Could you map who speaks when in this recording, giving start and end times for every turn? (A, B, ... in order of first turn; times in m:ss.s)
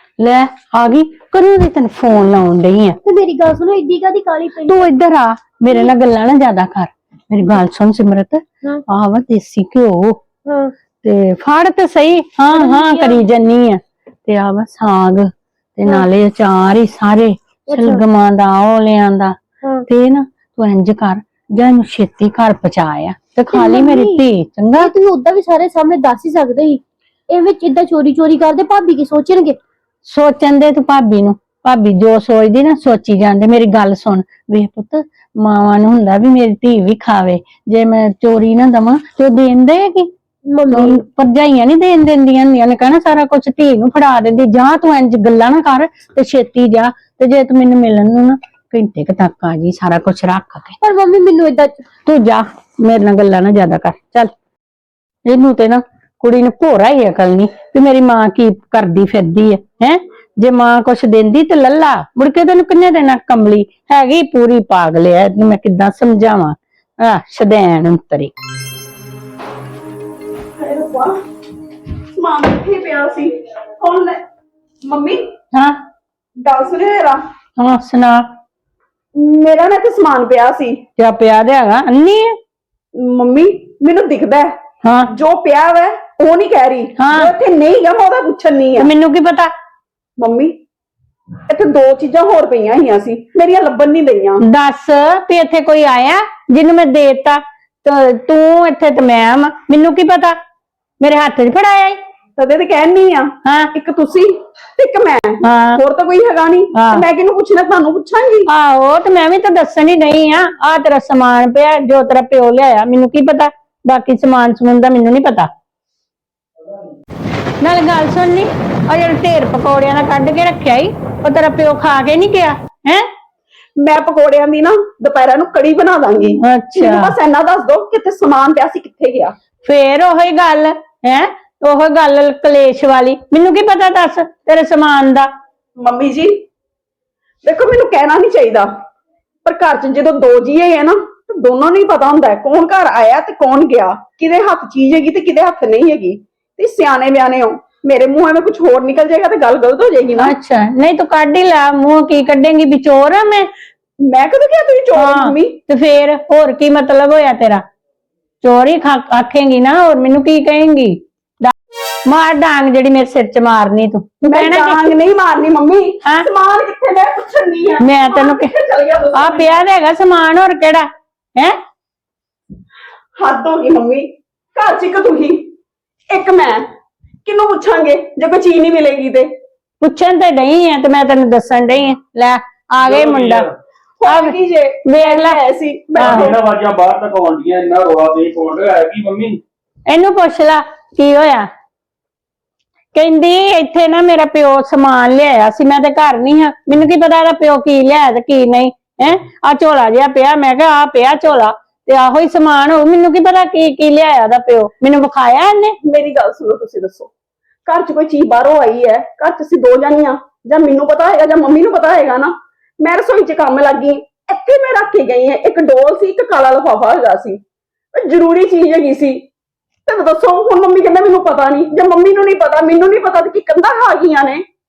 0:00.2-0:03.0 A
0:03.0-0:04.9 B
0:04.6-0:10.2 A
0:11.0-0:19.4 A
0:12.5-0:13.2 B
0:17.7-0:18.0 B
0:19.9-0:24.9 A
0:23.5-0:24.2 B
0:24.8-0:29.6 B
0:30.0-0:40.1 A
0:40.5-0:40.9 B
0:40.7-0:50.8 A
0:50.8-0:51.8 B
0:52.0-0:54.3 A
0:55.3-1:08.3 A
1:10.6-1:11.1 C
1:12.2-1:14.2 C
1:14.8-1:15.2 C
1:16.4-1:17.2 C
1:17.6-1:18.2 A
1:19.2-1:20.8 C
1:21.0-1:22.4 A
1:23.0-1:24.5 C
1:24.8-1:25.1 A
1:25.1-1:28.9 C
1:27.0-1:27.3 A
1:28.8-1:29.5 A
1:30.2-1:30.5 C
1:31.5-1:34.4 C
1:34.5-1:40.4 A
1:41.0-1:42.0 A
1:42.4-1:48.5 C
1:43.4-1:43.7 A
1:45.4-1:45.8 A
1:46.8-1:47.0 A
1:48.5-1:55.5 A
1:57.6-2:03.1 A
2:03.8-2:09.3 C
2:06.4-2:07.1 A
2:09.6-2:15.3 A
2:15.8-2:16.4 C
2:17.4-2:18.7 C
2:19.4-2:30.4 C
2:30.2-2:33.5 A
2:34.1-2:35.6 C
2:35.0-2:37.6 A
2:38.4-2:41.5 A
2:42.1-2:44.9 A
2:44.2-2:49.5 C
2:47.8-2:48.5 A
2:49.2-2:51.6 A
2:53.2-2:55.5 C
2:56.1-2:56.6 C
2:57.2-2:59.3 C
2:59.8-3:03.5 A
3:02.8-3:03.5 D
3:04.0-3:06.4 C
3:04.1-3:04.3 A
3:04.9-3:05.4 A
3:06.0-3:09.4 D
3:06.0-3:06.3 A
3:09.9-3:11.5 A
3:12.9-3:25.8 A
3:25.8-3:27.1 C
3:27.6-3:37.4 C
3:37.9-3:39.2 C
3:39.9-3:44.4 C